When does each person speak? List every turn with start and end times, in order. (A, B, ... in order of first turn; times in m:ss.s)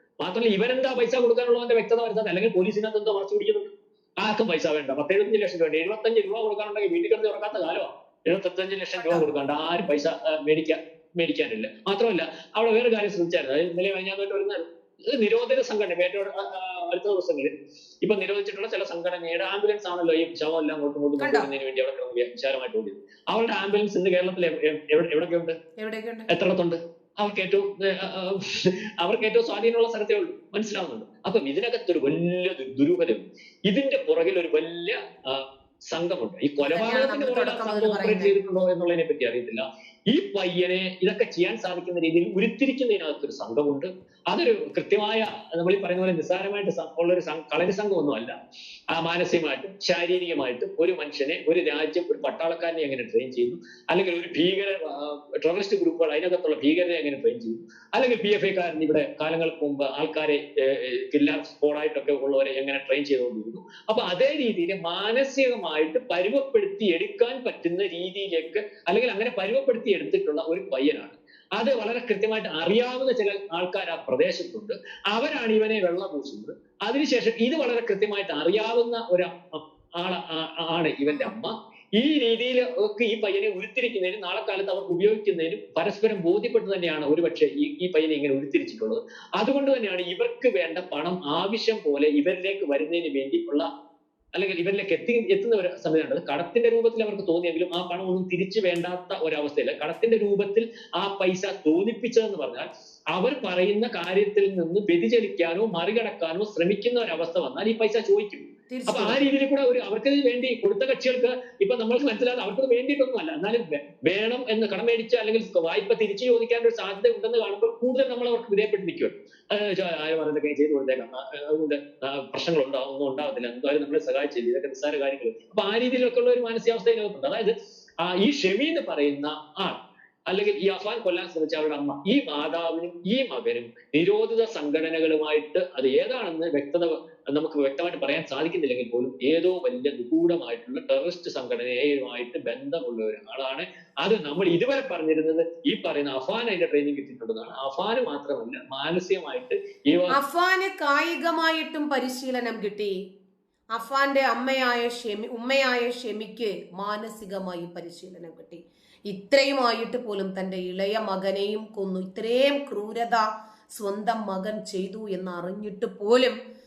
0:00.2-0:25.6 A
0:09.0-0:09.3 B
0:21.2-0:21.5 B
0:25.8-0:26.3 B
0:26.3-0:48.3 A
0:36.6-0:38.3 B
0:48.9-1:33.7 A
1:34.3-2:09.8 A
1:48.7-1:49.3 B
2:10.3-2:30.1 A
2:30.1-2:32.9 B
2:33.7-2:46.4 B